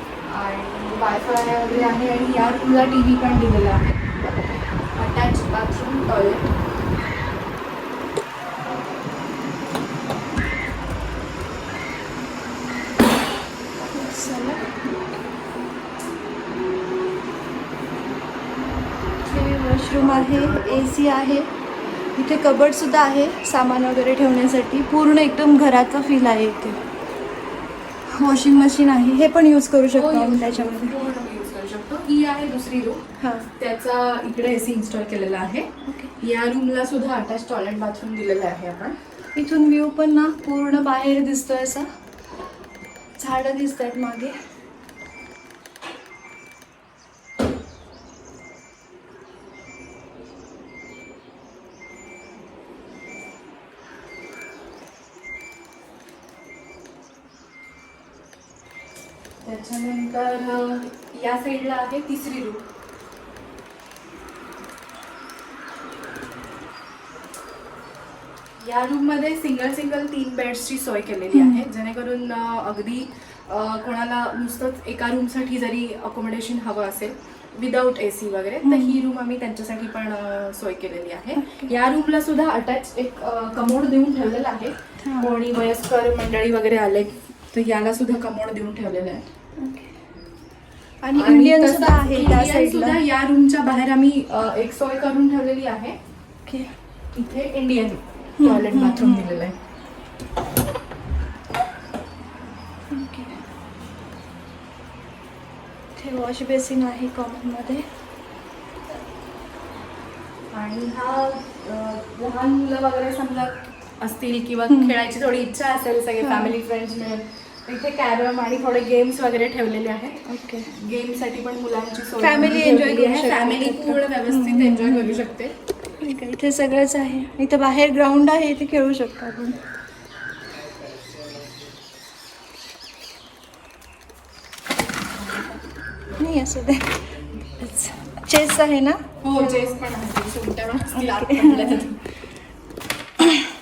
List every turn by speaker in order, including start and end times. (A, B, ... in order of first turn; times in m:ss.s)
0:00.2-0:04.3 A
0:04.9-0:06.5 A
0:13.8-0:14.8 B
0:19.2-0:21.5 B
0:20.0-0:20.8 A
0:22.2-0:26.8 B
0:28.1-0:30.9 B
0:29.9-0:33.0 A
0:33.2-0:33.5 B
0:33.6-0:39.0 A
0:35.9-0:36.1 B
0:39.3-0:41.9 B
0:43.2-0:44.3 B
0:59.4-1:02.6 A
1:08.6-1:29.2 A
1:11.3-1:11.6 B
1:18.6-1:19.0 B
1:21.4-1:21.7 B
1:25.0-1:25.4 B
1:29.6-1:29.9 B
1:31.1-1:33.0 B
1:31.1-1:36.0 A
1:37.1-1:39.5 A
1:38.4-1:39.3 B
1:42.9-1:43.3 B
1:46.0-1:47.8 B
1:50.5-2:05.5 A
1:54.7-1:55.0 B
1:56.2-1:56.5 B
2:00.2-2:00.7 B
2:02.2-2:05.2 B
2:06.0-2:09.6 B
2:16.1-2:19.6 B
2:19.2-2:22.0 A
2:20.9-2:21.9 B